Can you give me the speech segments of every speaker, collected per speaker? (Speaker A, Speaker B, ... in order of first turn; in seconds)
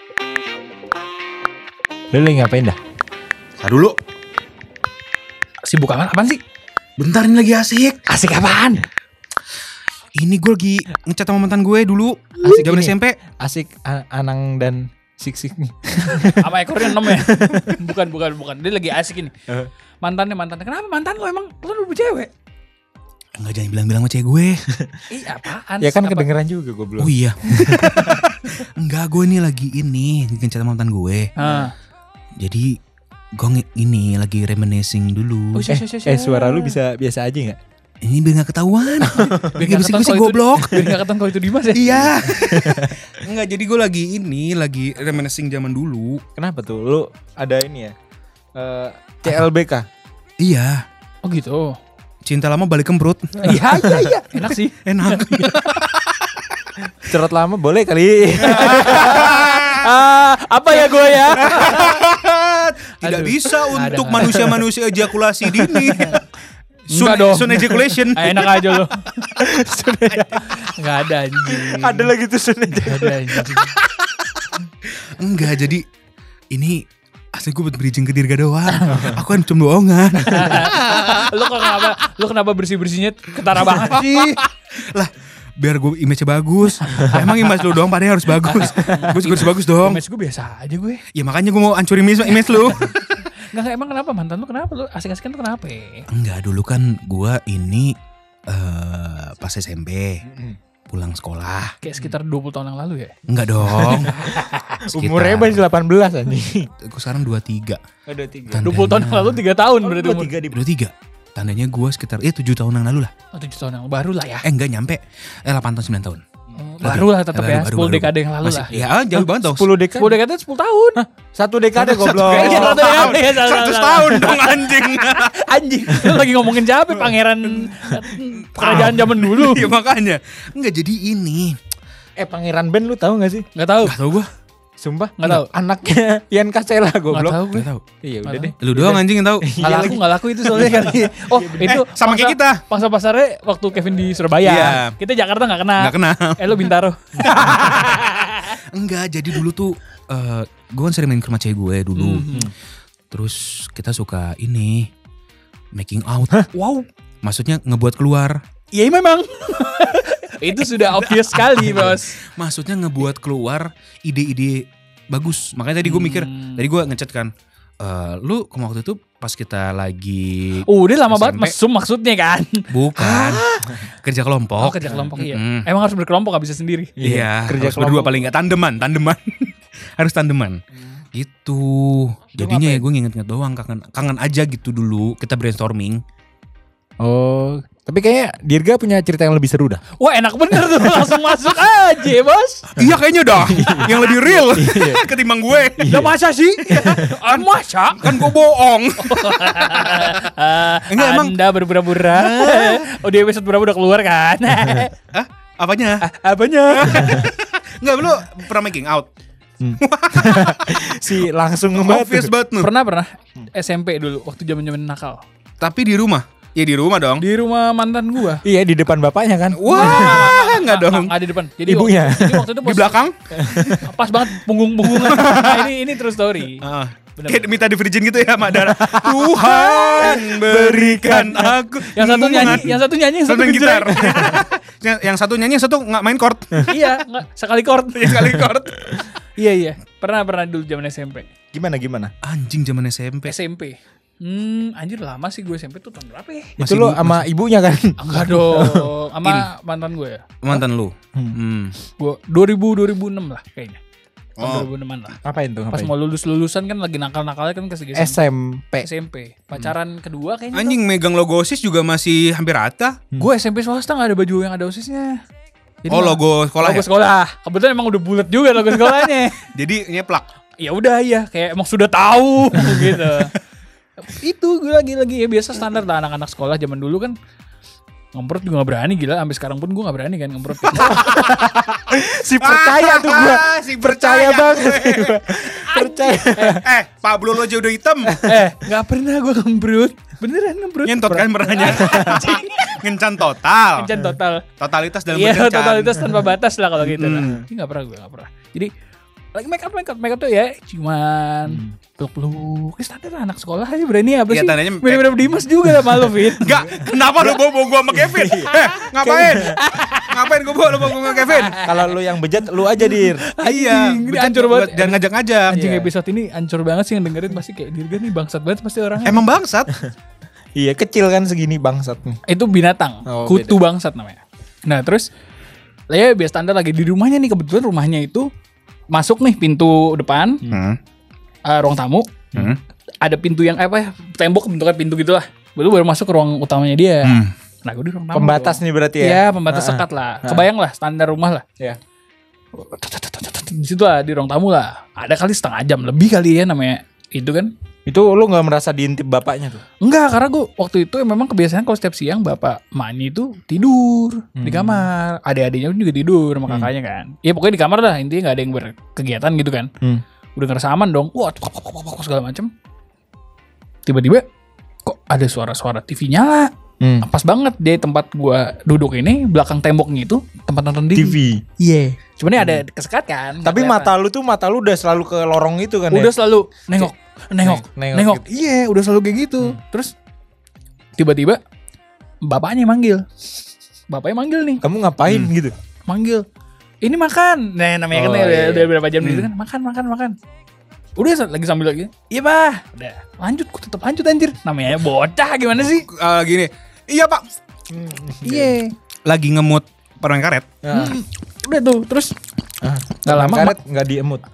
Speaker A: 2.1-2.8, 12.4-17.8, 24.7-25.1, 25.8-28.2, 35.7-37.6, 39.0-39.6, 42.2-43.0, 46.4-47.9, 48.5-49.9, 57.0-59.2, 60.8-61.7, 63.7-64.6, 65.5-66.2, 69.4-70.7, 71.4-74.6, 100.2-100.6, 104.8-106.7, 108.1-108.7, 109.8-110.6, 118.7-120.2, 121.0-123.2, 126.0-126.3, 132.2-133.4, 134.8-137.4, 138.0-141.7, 177.0-178.2, 182.4-182.7, 187.0-189.8, 190.7-191.0, 193.4-195.0, 195.8-197.1, 209.6-212.3, 218.4-220.3, 221.6-222.5, 223.3-223.8, 228.8-231.5, 232.4-232.8, 241.5-242.1, 246.6-248.9, 255.2-255.9, 257.9-258.9, 280.7-286.6, 288.1-288.5, 291.1-292.3, 301.5-301.7, 307.2-309.6, 311.6-313.2, 315.5-315.9, 320.6-322.2, 323.1-323.6, 338.1-340.5, 347.9-349.6, 354.4-354.9, 366.8-367.1, 370.9-371.4, 372.4-372.6, 373.4-376.1, 376.7-378.2, 384.6-385.5, 387.9-388.7, 397.7-398.6, 400.6-401.0, 402.6-404.2
Speaker B: 3.6-4.0, 7.0-8.0, 10.2-13.1, 23.4-24.6, 27.0-31.3, 32.4-32.7, 33.4-35.7, 38.0-40.9, 41.7-46.2, 50.4-50.8, 52.2-54.0, 54.8-56.3, 58.4-59.9, 61.4-66.2, 66.9-68.5, 75.1-75.8, 76.5-76.8, 77.3-81.9, 83.5-90.0, 91.1-93.0, 96.1-97.9, 98.5-100.2, 100.9-101.7, 103.3-104.3, 104.9-105.6, 106.8-107.8, 108.5-109.4, 110.5-113.1, 114.4-116.2, 116.8-119.7, 121.8-125.3, 128.5-131.6, 133.8-134.3, 137.5-137.8, 138.6-140.0, 141.6-142.6, 144.4-144.9, 145.8-146.6, 147.2-147.9, 148.7-152.4, 153.1-154.9, 155.7-158.4, 160.7-167.3, 167.8-171.6, 172.7-175.7, 177.0-180.6, 181.1-186.0, 192.7-196.0, 197.2-200.1, 200.9-202.8, 205.1-206.0, 206.7-209.1, 209.8-210.8, 211.7-212.7, 215.6-217.2, 219.5-221.1, 222.6-223.8, 224.8-225.7, 226.6-236.9, 237.9-238.9, 242.2-243.3, 246.6-247.2, 250.4-251.8, 254.4-254.7, 260.5-263.0, 265.9-266.9, 269.5-270.2, 282.4-285.4, 286.4-288.2, 290.8-293.9, 294.6-296.3, 296.8-297.4, 304.3-311.6, 313.4-315.6, 319.0-319.7, 330.5-330.8, 332.3-332.6, 337.0-337.3, 385.1-385.3, 389.0-389.3, 395.6-397.2, 399.1-400.4
Speaker C: 5.6-6.4, 8.1-8.8, 16.1-19.3, 20.0-22.3, 25.1-26.3, 31.4-31.7, 35.5-36.8, 39.5-42.1, 51.2-51.8, 53.4-55.8, 58.4-62.0, 63.0-64.4, 65.9-66.2, 66.9-69.4, 70.4-72.1, 72.8-73.8, 80.2-84.1, 86.9-87.2, 88.4-91.0, 92.4-96.0, 101.8-103.1, 103.8-104.8, 108.6-110.3, 113.3-114.5, 116.6-118.7, 120.0-121.0, 122.2-129.7, 133.5-133.9, 135.2-135.5, 137.1-137.7, 138.2-138.5, 139.6-148.5, 151.9-152.5, 158.7-162.2, 165.8-166.6, 170.7-173.7, 174.6-176.9, 190.0-192.7, 195.8-198.3, 199.0-204.9, 206.0-207.3, 212.6-215.2, 217.2-218.4, 219.7-223.0, 223.8-226.6, 227.2-227.5, 231.8-234.4, 236.7-238.3, 239.4-241.3, 243.2-246.6, 248.0-250.3, 251.9-253.8, 254.4-255.2, 255.7-258.2, 258.8-260.8, 263.1-265.2, 265.8-269.5, 270.6-273.3, 274.0-277.1, 278.1-281.2, 285.5-286.6, 288.2-292.7, 293.7-294.5, 295.1-298.7, 299.3-306.7, 309.4-310.2, 310.9-311.9, 312.8-319.3, 322.3-325.1, 325.9-328.3, 328.9-330.4, 331.5-332.1, 333.0-341.4, 342.5-347.5, 349.8-359.7, 360.4-362.5, 363.8-364.2, 364.8-366.5, 367.0-373.9, 375.9-379.9, 381.0-381.4, 382.2-383.0, 383.9-384.6, 385.9-386.2, 386.8-390.1, 390.9-395.9, 398.2-398.7, 400.7-402.1, 403.0-403.6